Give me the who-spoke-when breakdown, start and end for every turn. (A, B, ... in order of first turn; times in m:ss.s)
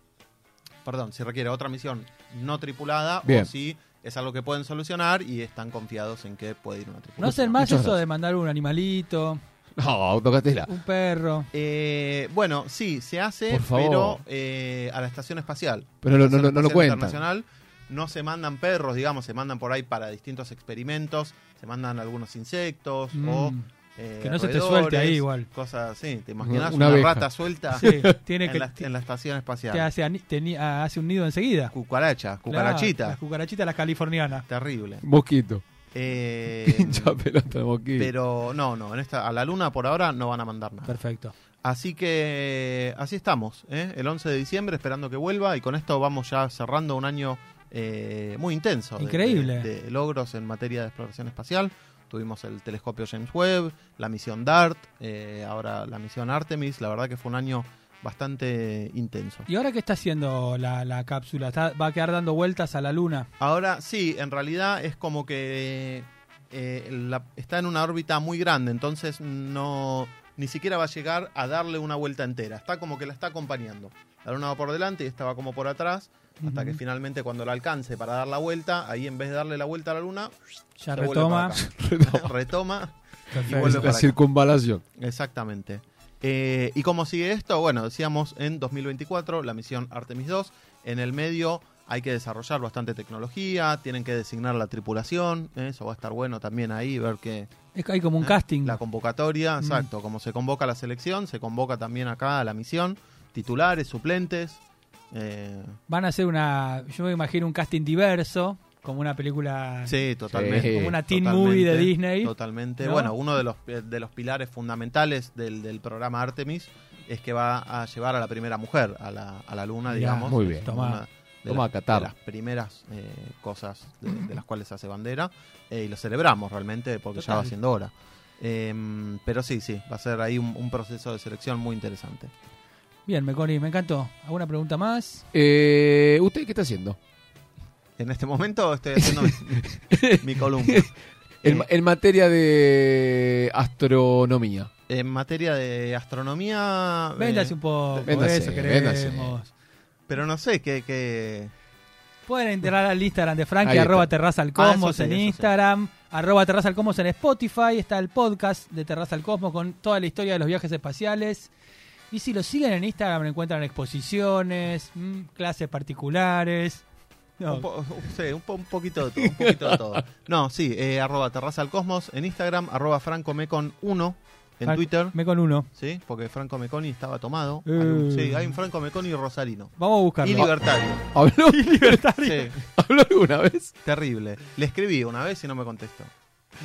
0:00.8-0:07.6 A
0:07.2-0:09.4 B
0:07.2-0:08.0 C
0:09.8-0:10.7 C
0:10.7-0:11.5 B
0:11.5-0:29.9 A
0:13.5-0:14.2 C
0:16.0-0:17.2 C
0:23.1-0:23.7 B
0:24.2-0:25.5 B
0:26.4-0:28.2 C
0:27.8-0:28.9 B
0:29.7-0:31.7 B
0:31.7-0:33.2 A
0:32.5-0:34.5 B
0:34.5-0:35.0 A
0:35.0-0:35.6 C
0:35.9-0:37.2 A
0:36.6-0:38.1 C
0:38.0-0:41.0 A
0:40.9-0:41.3 B
0:41.6-0:59.5 A
0:49.0-0:49.7 B
0:59.5-1:03.3 B
1:03.4-1:20.3 A
1:16.4-1:16.8 B
1:20.8-1:21.6 B
1:20.9-1:24.2 A
1:21.6-1:22.3 C
1:23.3-1:23.9 B
1:23.5-1:24.8 C
1:25.0-1:37.5 A
1:37.8-1:38.8 B
1:38.2-1:44.6 A
1:39.6-1:39.9 B
1:45.1-1:45.8 A
1:45.9-1:53.1 B
1:49.9-2:12.3 A
1:50.3-1:51.0 C
1:59.9-2:01.0 B
2:00.2-2:00.7 C
2:01.5-2:02.1 C
2:07.2-2:07.5 B
2:13.1-2:15.3 B
2:15.3-2:17.0 C
2:18.0-2:20.9 A
2:19.0-2:24.7 C
2:24.9-2:28.1 A
2:27.2-2:29.5 B
2:28.1-2:29.4 C
2:30.1-2:31.5 A
2:32.3-2:41.5 B
2:33.6-2:34.1 C
2:34.6-2:35.5 A
2:42.1-2:46.8 B
2:47.4-2:47.7 B
2:47.5-2:55.2 A
2:49.2-2:50.0 C
2:54.7-2:55.7 B
2:55.8-3:01.1 A
2:57.7-2:58.6 B
2:59.8-3:00.5 B
3:01.1-3:02.1 C
3:01.5-3:02.5 B
3:02.2-3:02.6 A
3:02.6-3:03.7 C
3:03.8-3:06.1 A